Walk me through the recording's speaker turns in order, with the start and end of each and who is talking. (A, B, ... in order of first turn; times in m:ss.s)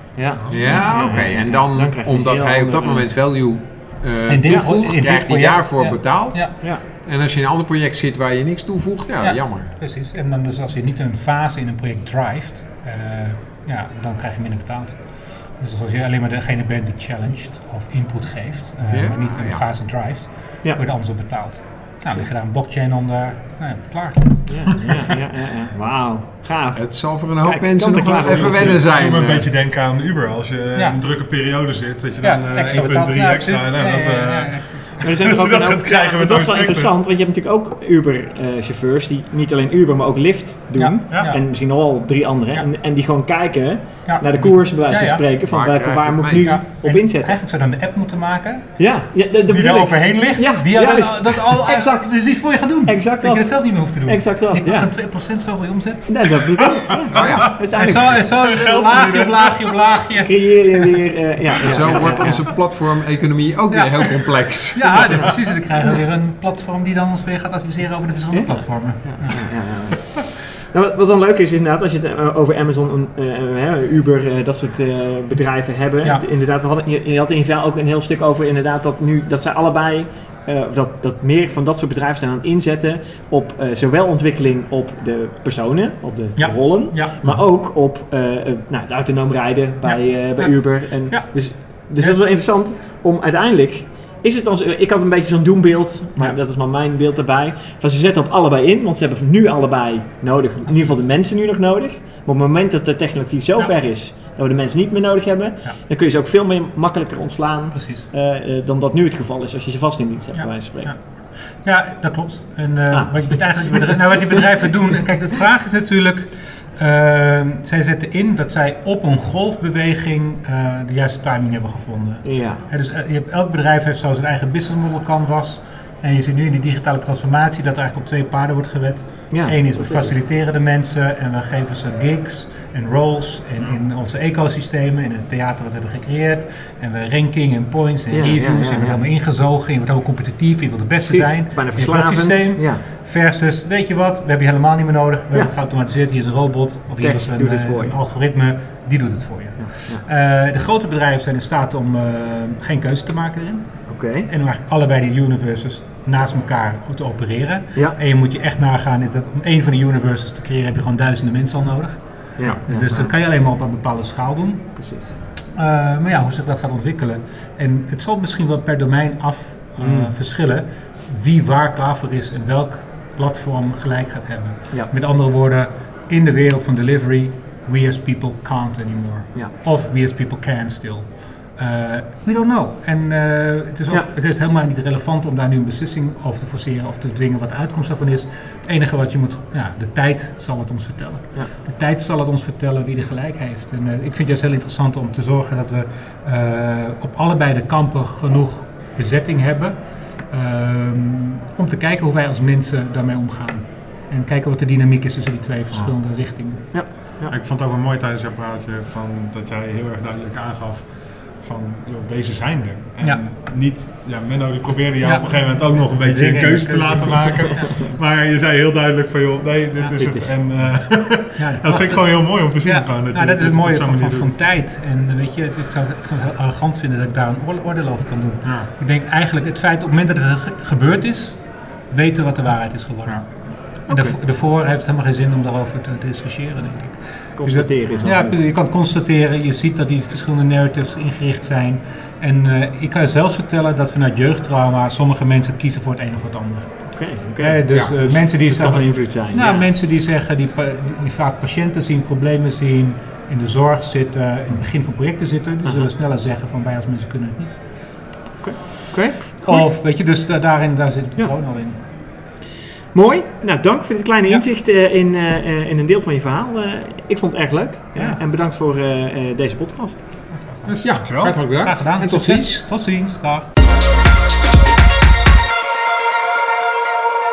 0:00.2-0:03.1 A
0:00.4-0:01.0 B
0:00.5-0:09.7 C
0:04.3-0:06.5 D
0:06.5-0:06.8 A
0:09.2-0:24.6 D
0:18.9-0:19.7 C
0:24.5-0:28.9 A
0:26.8-0:29.5 C
0:28.3-0:36.9 B
0:32.2-0:35.0 D
0:35.0-0:47.4 A
0:40.8-0:41.5 D
0:41.1-0:41.4 B
0:44.0-0:45.2 D
0:45.5-0:46.6 C
0:46.4-0:56.3 D
0:48.8-0:52.0 A
0:52.8-0:55.1 A
0:56.1-0:58.3 A
0:56.7-0:59.9 B
0:57.1-0:57.5 C
0:57.7-1:00.5 D
1:00.2-1:02.4 A
1:01.7-1:05.5 C
1:01.9-1:02.4 B
1:03.7-1:09.6 D
1:08.3-1:51.0 A
1:26.4-1:27.1 D
1:29.8-1:32.2 D
1:47.7-1:48.1 D
1:50.3-2:44.8 D
1:52.9-1:54.3 A
2:02.2-2:02.6 A
2:09.3-2:10.2 A
2:18.1-2:19.0 A
2:21.0-2:22.8 A
2:27.0-2:28.0 A
2:29.6-2:30.0 A
2:33.9-2:34.3 A
2:42.4-2:43.1 A
2:44.8-2:45.2 A
2:45.5-3:26.9 D
2:49.8-2:50.1 A
3:26.7-3:27.4 A
3:26.8-3:44.3 B
3:35.0-3:37.7 D
3:39.9-3:40.9 A
3:41.4-4:17.6 D
3:48.4-3:48.7 B
3:53.9-3:54.2 A
3:57.4-3:58.4 A
4:06.9-4:09.7 A
4:07.7-4:08.0 C
4:15.6-4:15.9 A
4:18.4-4:19.7 A
4:19.4-4:21.8 D
4:22.9-4:30.5 A
4:30.4-4:33.5 D
4:30.6-4:31.4 B
4:30.8-4:32.6 C